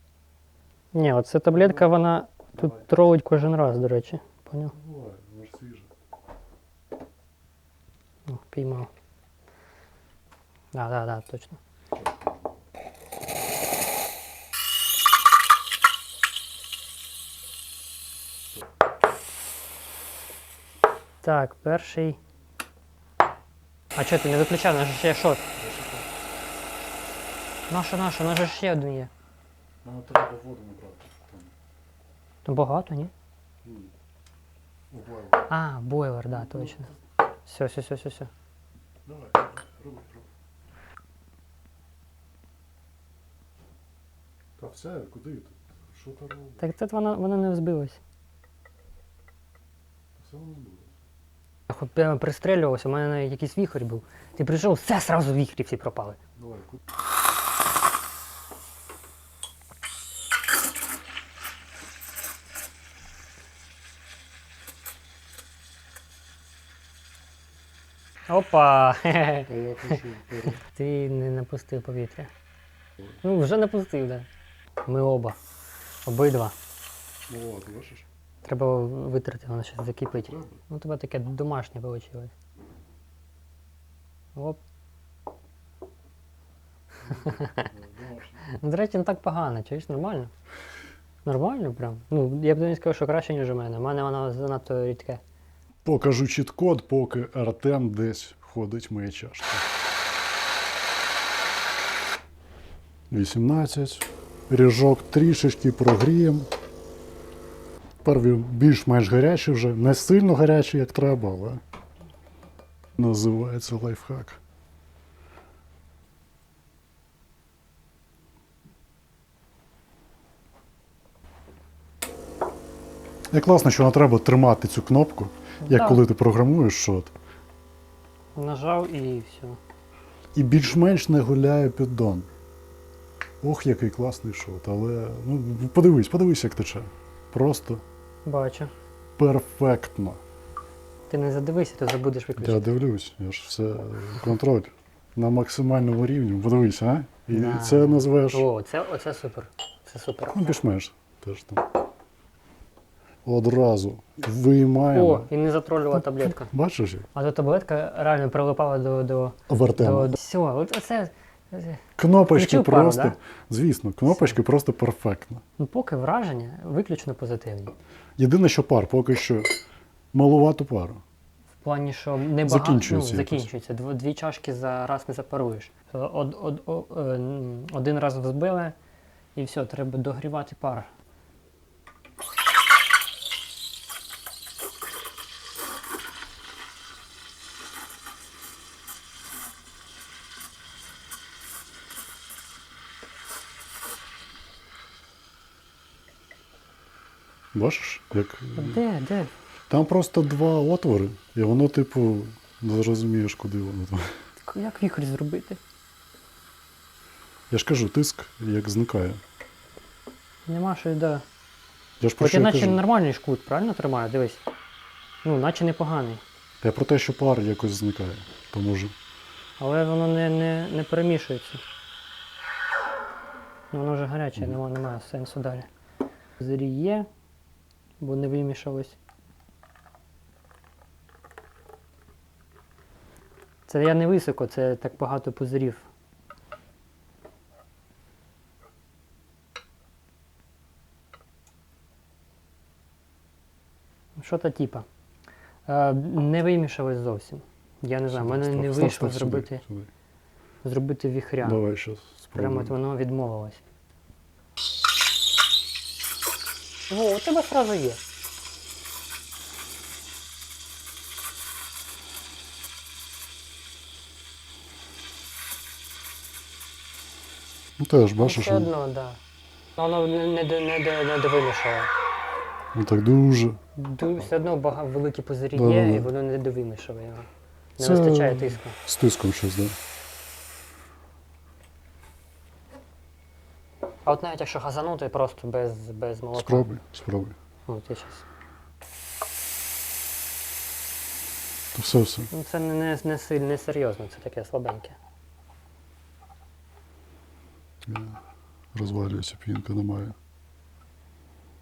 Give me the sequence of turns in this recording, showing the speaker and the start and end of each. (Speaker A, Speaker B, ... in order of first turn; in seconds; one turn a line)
Speaker A: 0.9-4.7
Speaker B: 1.5-1.9
Speaker B: 2.5-2.9
Speaker B: 4.7-5.9
Speaker A: 8.3-8.9
Speaker A: 10.7-11.6
Speaker B: 11.9-12.6
Speaker A: 21.2-22.2
Speaker A: 23.9-25.4
Speaker B: 25.6-26.1
Speaker A: 27.7-29.1
Speaker B: 29.8-31.5
Speaker A: 32.4-33.1
Speaker B: 33.6-33.9
Speaker B: 34.9-35.5
Speaker A: 35.5-36.9
Speaker B: 36.3-37.0
Speaker A: 37.5-38.3
Speaker B: 39.0-40.3
Speaker B: 44.6-46.6
Speaker A: 46.6-48.0
Speaker B: 50.2-51.0
Speaker A: 51.7-56.2
Speaker B: 56.4-56.8
Speaker A: 68.3-69.5
Speaker B: 69.5-70.6
Speaker A: 70.5-72.3
Speaker A: 73.2-74.2
Speaker A: 74.9-75.4
Speaker A: 76.0-76.5
Speaker B: 77.3-78.0
Speaker A: 78.4-82.3
Speaker B: 80.2-80.6
Speaker B: 87.0-88.5
Speaker A: 87.3-87.7
Speaker A: 88.5-90.3
Speaker A: 91.2-95.2
Speaker B: 95.8-99.7
Speaker B: 103.1-106.5
Speaker B: 108.0-111.6
Speaker B: 113.0-114.4
Speaker B: 123.3-127.1
Speaker A: 125.6-126.0
Speaker A: 128.4-129.6
Speaker B: 130.3-132.3
Speaker B: 133.4-137.8
Speaker A: 138.2-138.7
Speaker B: 139.2-140.2
Speaker A: 141.1-142.7
Speaker B: 142.4-148.4
Speaker A: 147.3-150.6
Speaker B: 150.3-151.7
Speaker B: 153.2-155.3
Speaker A: 154.9-156.5
Speaker B: 155.9-157.1
Speaker A: 157.1-161.8
Speaker B: 159.5-160.1
Speaker B: 162.0-165.4
Speaker A: 162.3-163.2
Speaker A: 164.1-164.4
Speaker A: 165.6-167.8
Speaker B: 168.2-169.5
Speaker B: 170.1-171.0
Speaker A: 171.6-178.8
Speaker B: 172.4-173.5
Speaker A: 179.3-180.9
Speaker B: 197.5-198.8
Speaker A: 198.6-199.3
Speaker B: 199.7-204.1
Speaker A: 204.5-205.6
Speaker B: 207.5-209.2
Speaker A: 210.5-211.2
Speaker B: 212.0-212.8
Speaker A: 212.2-214.4
Speaker A: 215.2-216.2
Speaker B: 216.6-218.9
Speaker A: 219.6-221.6
Speaker A: 223.7-225.7
Speaker A: 226.4-227.1
Speaker A: 228.0-229.0
Speaker A: 233.7-235.9
Speaker A: 244.2-244.8
Speaker A: 245.7-249.6
Speaker B: 248.1-249.9
Speaker A: 250.6-251.6
Speaker B: 251.4-252.8
Speaker A: 252.3-253.6
Speaker A: 256.9-258.0
Speaker B: 267.8-268.7
Speaker A: 268.2-269.2
Speaker A: 269.8-271.9
Speaker B: 272.7-273.6
Speaker A: 273.8-278.8
Speaker B: 275.5-276.1
Speaker B: 277.8-279.8
Speaker A: 284.0-286.7
Speaker B: 286.3-287.3
Speaker A: 287.7-288.2
Speaker B: 291.7-292.3
Speaker A: 292.3-295.0
Speaker B: 297.9-298.2
Speaker B: 298.8-300.1